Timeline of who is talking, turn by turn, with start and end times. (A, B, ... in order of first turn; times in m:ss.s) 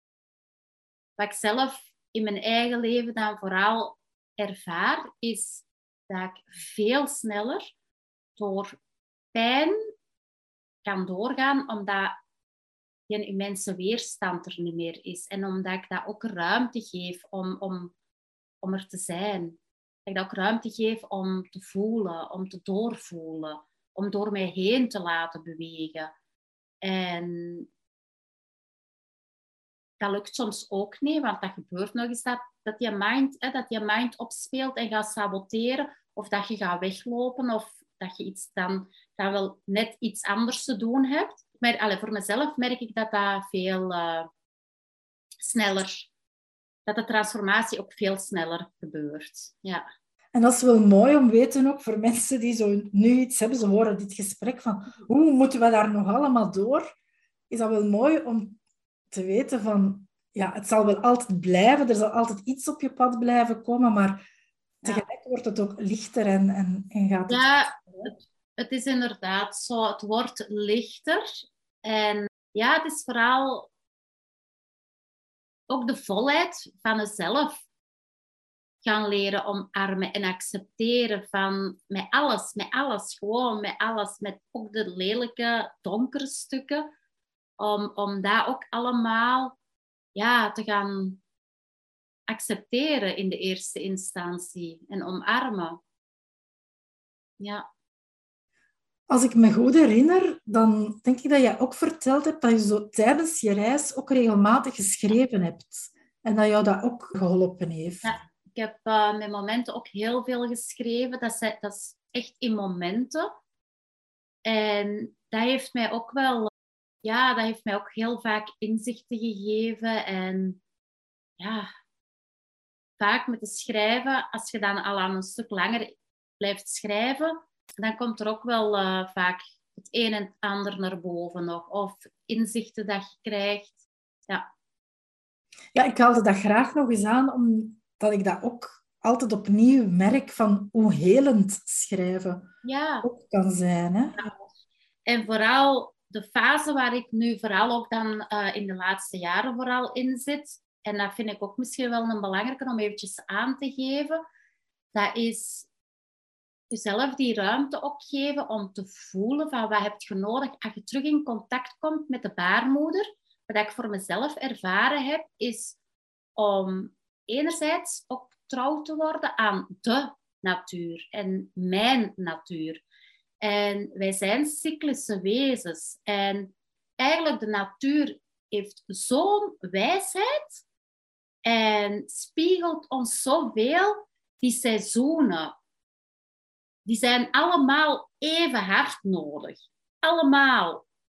0:01.2-0:07.7 A
0:08.4-0:08.8 A
0:09.3-0:09.8 A
0:10.8-0:12.2 A
0:13.1-0:17.9 A
0:18.6-0:26.1 A
0:26.8-0:27.7 A
0:30.0-0:44.3 A
0:45.4-0:46.1 A
0:46.9-0:49.8 A
0:50.3-0:56.9 B
0:57.5-0:58.6 B
0:59.1-1:04.2 B
1:04.8-1:08.1 B
1:07.3-1:13.7 A
1:15.7-1:17.6 A
1:18.8-1:26.9 A
1:27.6-1:29.6 A
1:30.2-1:31.2 A
1:32.3-1:35.8 A
1:37.4-1:37.7 A
1:39.1-1:48.1 B
1:48.0-1:53.3 A
1:54.4-1:56.5 A
1:57.0-2:00.6 A
2:01.4-2:01.7 A
2:03.0-2:14.5 A
2:15.7-2:22.5 B
2:22.6-2:23.1 A
2:23.0-2:24.3 B
2:25.1-2:34.2 A
2:34.9-2:35.7 A
2:36.7-2:45.8 A
2:46.4-2:52.8 A
2:53.4-3:00.6 A
3:01.4-3:05.6 A
3:06.8-3:10.8 A